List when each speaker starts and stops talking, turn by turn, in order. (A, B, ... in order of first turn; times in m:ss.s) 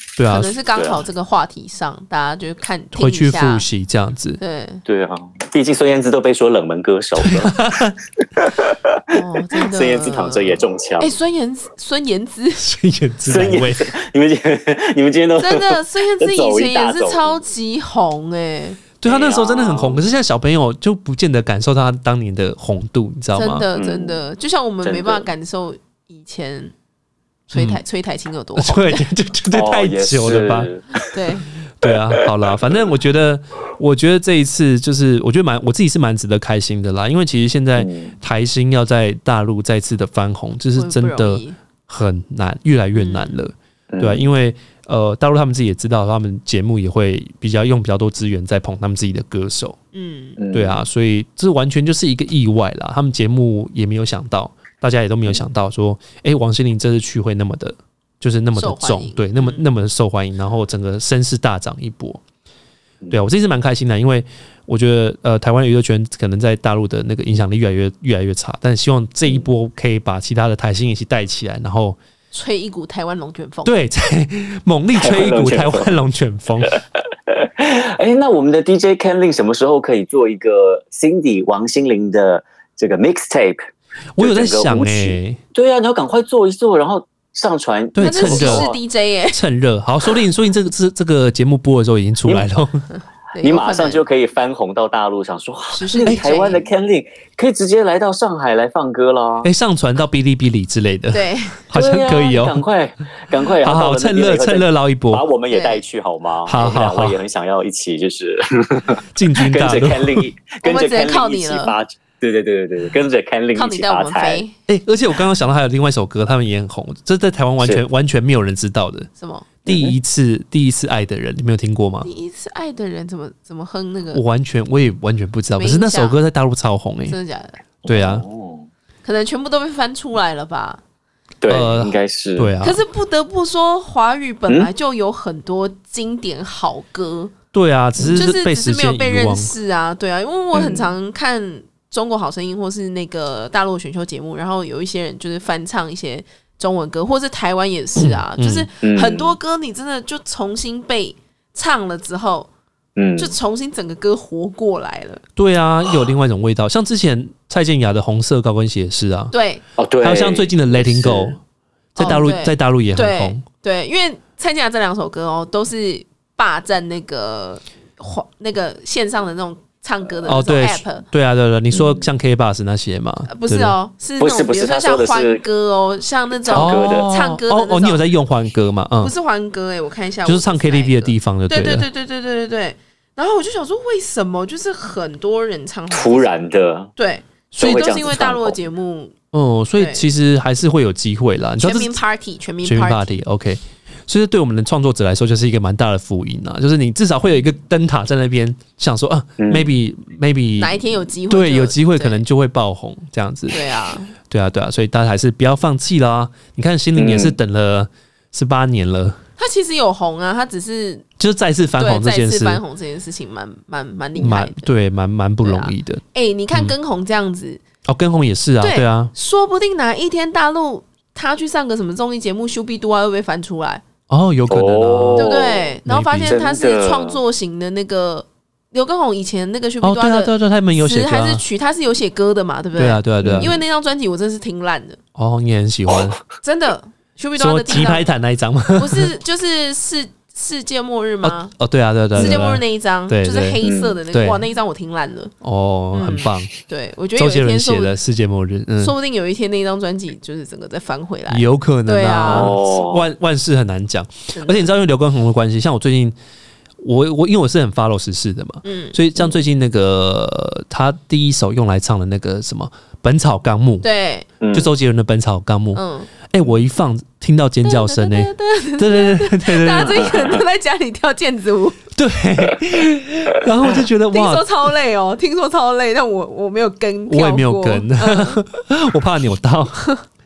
0:00.2-0:00.5 A
0:00.3-0:03.6 B
0:00.7-0:01.0 C
0:02.9-0:04.4 A
0:04.4-0:04.8 B
0:04.9-0:07.6 C
0:07.2-0:08.0 A
0:08.4-0:11.2 C
0:09.1-0:12.6 B
0:12.6-0:13.9 A
0:13.3-0:17.4 C
0:15.4-0:18.8 B
0:19.0-0:23.7 A
0:19.0-0:20.0 C
0:23.3-0:26.7 B
0:23.8-0:24.2 C
0:24.8-0:25.3 C
0:27.5-0:29.1 B
0:27.6-0:27.8 A
0:28.6-0:30.7 A
0:29.5-0:31.1 C
0:31.1-0:31.5 B
0:31.8-0:49.8 A
0:31.9-0:32.3 C
0:37.8-0:38.1 C
0:40.8-0:41.6 B
0:42.9-0:43.4 B
0:43.9-0:44.2 C
0:49.9-0:50.4 B
0:50.4-0:50.8 C
0:50.5-1:02.2 A
0:58.6-0:59.6 B
1:03.1-1:12.0 A
1:12.3-1:13.8 B
1:13.6-1:16.8 A
1:15.0-1:16.0 C
1:17.3-1:23.7 C
1:24.2-1:25.4 A
1:24.2-1:28.8 C
1:28.0-1:28.7 A
1:28.0-1:29.4 B
1:29.3-1:32.8 A
1:32.3-1:32.5 C
1:32.9-1:34.0 B
1:33.4-1:39.5 C
1:35.7-1:36.7 B
1:39.4-1:42.6 A
1:41.1-1:41.7 B
1:41.7-1:54.4 C
1:43.6-1:45.2 A
1:45.5-1:45.8 B
1:46.4-1:47.2 A
1:49.1-1:50.3 A
1:50.6-1:51.8 B
1:53.6-1:54.6 B
1:54.7-1:59.1 A
1:59.2-1:59.5 B
1:59.6-2:02.1 A
1:59.7-2:00.0 C
2:02.0-2:04.2 B
2:04.1-2:07.2 A
2:05.6-2:06.2 B
2:07.1-2:07.6 B
2:07.8-2:08.7 C
2:07.9-2:08.2 A
2:09.0-2:10.8 B
2:11.4-2:12.5 C
2:11.5-2:12.8 A
2:12.6-2:17.3 B
2:17.5-2:19.5 A
2:18.2-2:32.5 B
2:20.5-2:20.9 C
2:28.0-2:28.7 A
2:28.8-2:29.4 C
2:33.0-2:33.3 C
2:33.2-2:35.2 B
2:35.4-2:39.3 A
2:39.3-2:39.6 B
2:39.8-2:41.4 C
2:40.0-2:41.4 A
2:42.0-2:43.4 A
2:42.0-2:51.1 B
2:50.2-2:53.8 A
2:51.7-2:52.1 C
2:53.3-2:58.0 B
2:54.2-2:55.4 C
2:56.4-2:57.1 C
2:56.5-2:59.1 A
2:59.0-3:06.3 B
3:00.2-3:01.9 A
3:05.9-3:06.9 C
3:07.0-3:09.1 B
3:07.5-3:08.6 C
3:07.6-3:08.0 A
3:09.3-3:12.0 A
3:09.8-3:10.0 B
3:11.6-3:13.2 B
3:12.6-3:23.6 A
3:19.4-3:19.7 C
3:20.6-3:22.2 B
3:23.5-3:24.2 B
3:24.2-3:29.2 A
3:27.0-3:27.4 C
3:29.4-3:31.1 B
3:31.2-3:32.6 A
3:31.8-3:34.7 B
3:34.2-3:36.8 A
3:35.4-3:37.6 B
3:37.9-3:39.1 A
3:38.6-3:43.8 B
3:44.1-3:45.3 A
3:44.5-3:47.2 C
3:45.2-3:55.0 B
3:45.9-3:46.4 A
3:49.8-3:51.4 A
3:52.8-3:53.5 A
3:53.2-3:53.6 C
3:55.2-3:56.2 A
3:56.4-3:58.1 B
3:57.4-3:59.1 A
3:58.8-4:01.5 B
4:01.2-4:04.4 A
4:02.1-4:05.3 B
4:02.2-4:02.5 C
4:03.6-4:04.0 C
4:05.4-4:06.5 A
4:05.9-4:07.9 B
4:07.2-4:09.0 A
4:08.8-4:12.6 B
4:11.3-4:16.2 A
4:12.2-4:13.1 C
4:14.3-4:14.8 B
4:16.8-4:23.9 A
4:18.6-4:19.0 B
4:23.8-4:24.3 B
4:24.4-4:24.7 C
4:24.5-4:30.3 A
4:25.7-4:26.1 B
4:27.6-4:31.8 B
4:32.0-4:34.5 A
4:34.1-4:38.4 B
4:37.1-4:39.9 A